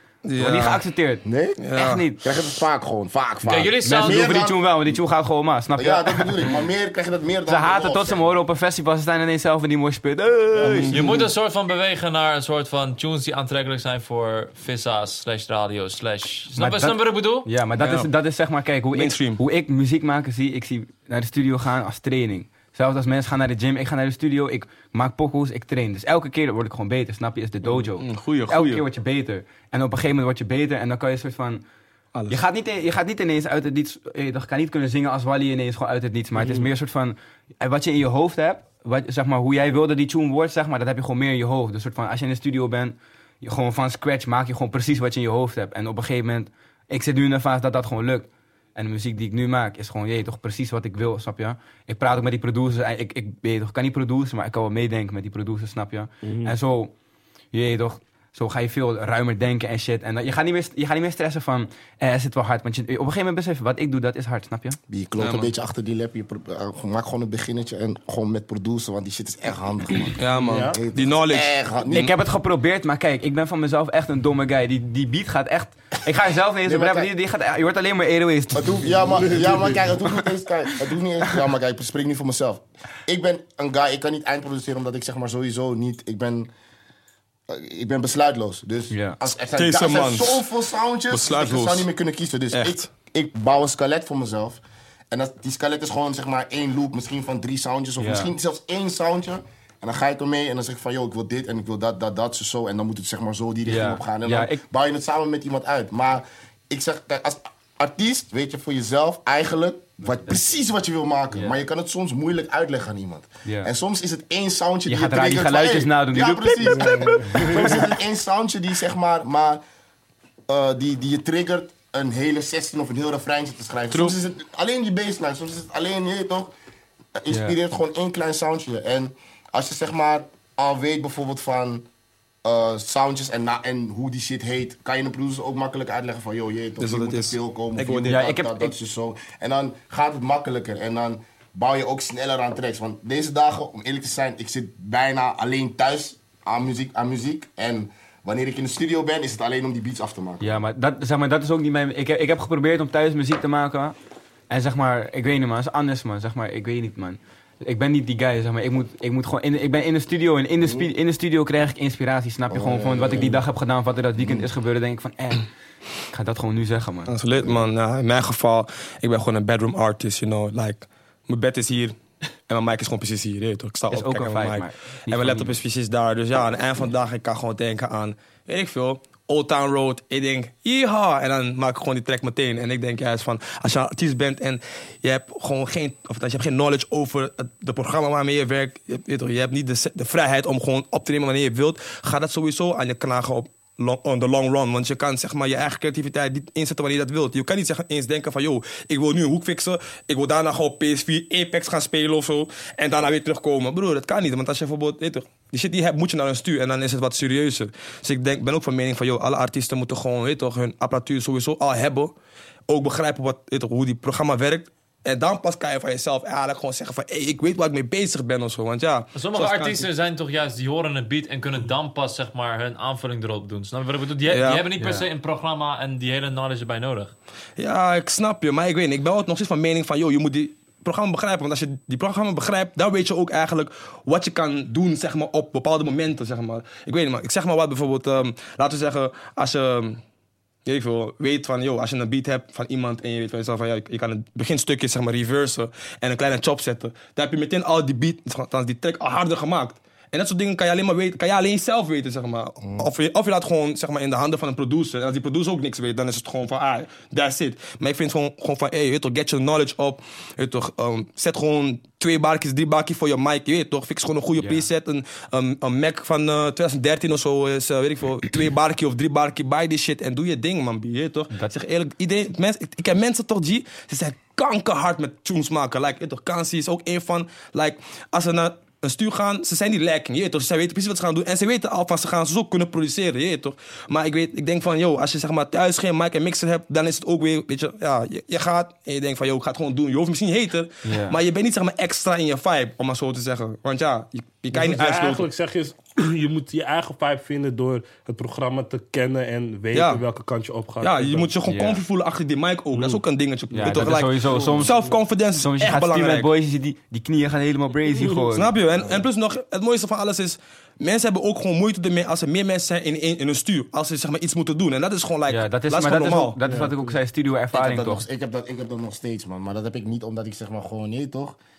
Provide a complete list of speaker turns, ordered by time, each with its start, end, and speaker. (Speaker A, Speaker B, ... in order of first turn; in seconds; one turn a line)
Speaker A: 0.2-0.8
Speaker B: 0.4-2.2
Speaker C: 1.2-1.6
Speaker A: 1.6-2.0
Speaker C: 2.2-5.0
Speaker D: 3.5-4.3
Speaker B: 3.8-6.3
Speaker C: 5.8-8.3
Speaker B: 7.5-11.0
Speaker A: 10.6-11.3
Speaker D: 10.9-17.5
Speaker B: 16.6-31.6
Speaker A: 17.8-18.1
Speaker A: 18.9-19.4
Speaker A: 27.6-28.8
Speaker A: 32.1-32.4
Speaker B: 32.3-56.9
Speaker E: 56.2-56.5
Speaker B: 57.5-64.8
Speaker C: 64.9-72.1
Speaker A: 65.2-65.5
Speaker A: 70.2-72.1
Speaker E: 70.4-70.8
Speaker B: 71.9-79.5
Speaker C: 76.6-77.1
Speaker C: 78.5-86.5
Speaker C: 87.5-119.6
Speaker B: 88.9-89.2
Speaker A: 89.5-90.4
Speaker A: 91.1-91.9
Speaker A: 92.5-92.9
Speaker B: 98.0-98.3
Speaker B: 103.7-104.6
Speaker B: 113.4-113.7
Speaker B: 114.8-117.9
Speaker E: 116.9-117.5
Speaker C: 120.5-126.5
Speaker A: 123.9-124.2
Speaker C: 127.2-131.8
Speaker B: 127.3-127.5
Speaker C: 132.4-150.5
Speaker A: 136.8-138.2
Speaker B: 138.1-138.7
Speaker B: 150.4-153.9
Speaker B: 154.5-165.5
Speaker C: 160.6-160.9
Speaker C: 162.5-163.4
Speaker B: 166.1-167.1
Speaker A: 167.1-212.1
Speaker B: 173.9-175.6
Speaker A: 212.7-219.9
Speaker D: 219.1-227.1
Speaker A: 224.3-224.7
Speaker B: 224.8-225.1
Speaker A: 227.6-240.0
Speaker A: 240.6-295.3
Speaker B: 264.4-264.6
Speaker B: 290.8-291.2
Speaker E: 294.5-301.3
Speaker A: 299.7-300.0
Speaker A: 300.8-306.3
Speaker B: 301.5-301.8
Speaker B: 303.5-304.8
Speaker E: 303.7-304.7
Speaker B: 305.3-308.5
Speaker E: 307.9-308.3
Speaker A: 308.3-316.4
Speaker B: 315.3-318.0
Speaker E: 316.4-316.8
Speaker C: 317.5-321.4